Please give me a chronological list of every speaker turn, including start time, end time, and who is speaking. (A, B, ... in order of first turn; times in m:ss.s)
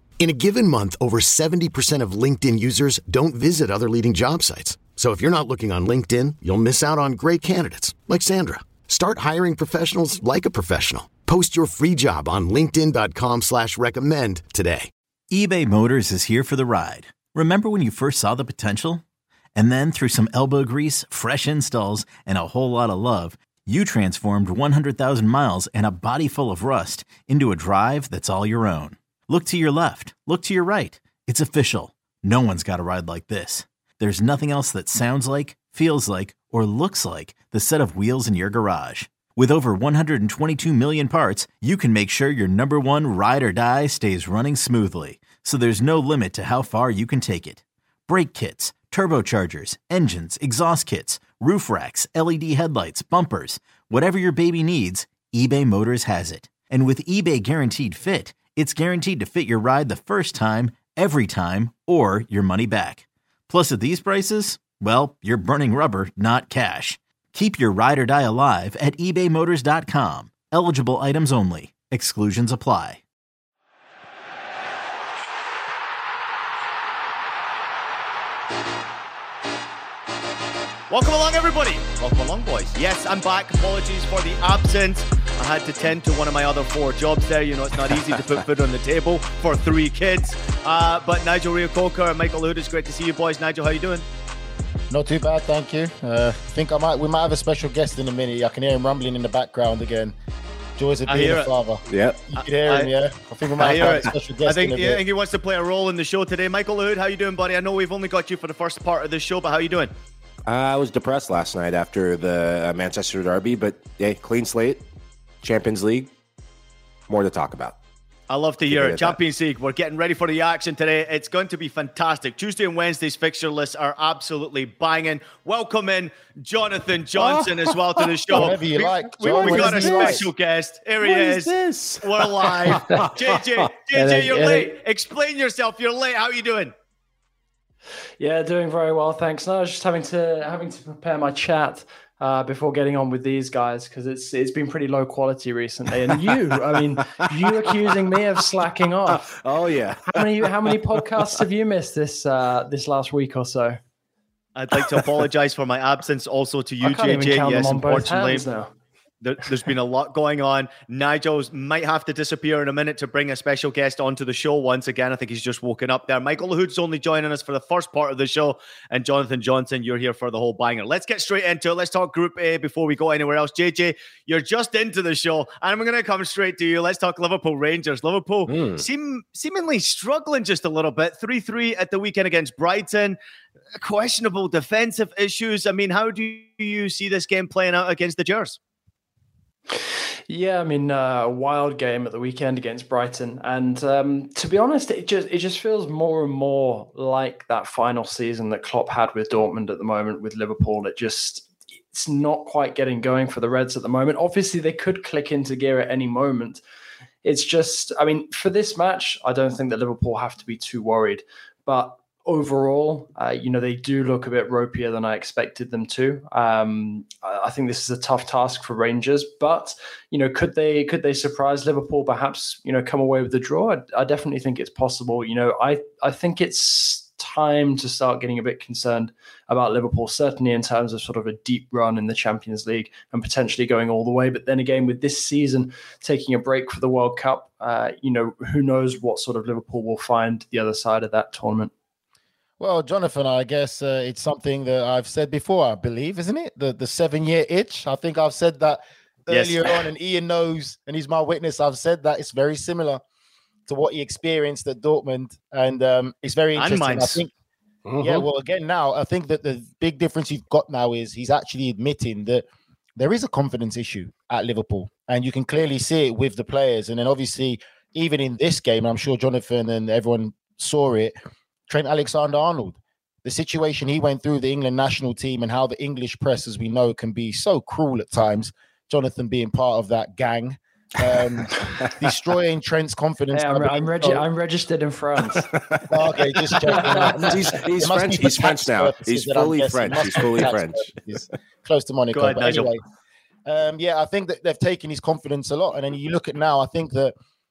0:00.2-0:14.9 A
0:15.3-0:19.0 B
0:19.6-1:13.0 B
1:20.9-1:34.0 C
1:34.9-1:40.2 D
1:40.8-1:45.0 D
1:41.1-1:41.5 C
1:41.9-1:42.2 E
1:42.4-1:42.9 C
1:43.6-1:49.9 C
1:50.5-1:54.8 E
1:55.4-1:56.1 E
1:57.1-1:57.8 E
1:58.3-2:16.7 C
1:58.7-1:59.2 E
2:07.2-2:08.0 E
2:08.3-2:10.3 D
2:09.3-2:10.2 E
2:11.0-2:13.0 E
2:12.7-2:13.1 F
2:13.9-2:14.8 F
2:18.2-2:29.4 F
2:27.1-2:27.7 E
2:29.1-2:30.8 E
2:30.1-2:33.8 F
2:34.6-2:38.5 C
2:36.8-2:38.7 F
2:39.2-3:03.2 C
2:58.5-2:58.8 E
3:03.8-3:08.6 C
3:09.7-3:26.6 F
3:27.2-4:01.7 F
4:02.6-4:13.0 D
4:09.3-4:09.8 C
4:13.7-4:17.3 D
4:16.6-4:17.2 C
4:18.0-4:22.4 D
4:23.0-4:31.2 D
4:31.7-4:44.2 D
4:43.3-4:45.5 F
4:45.9-4:52.8 D
4:46.7-4:47.3 F
4:47.2-4:51.0 E
4:52.1-4:52.7 C
4:53.5-4:57.1 D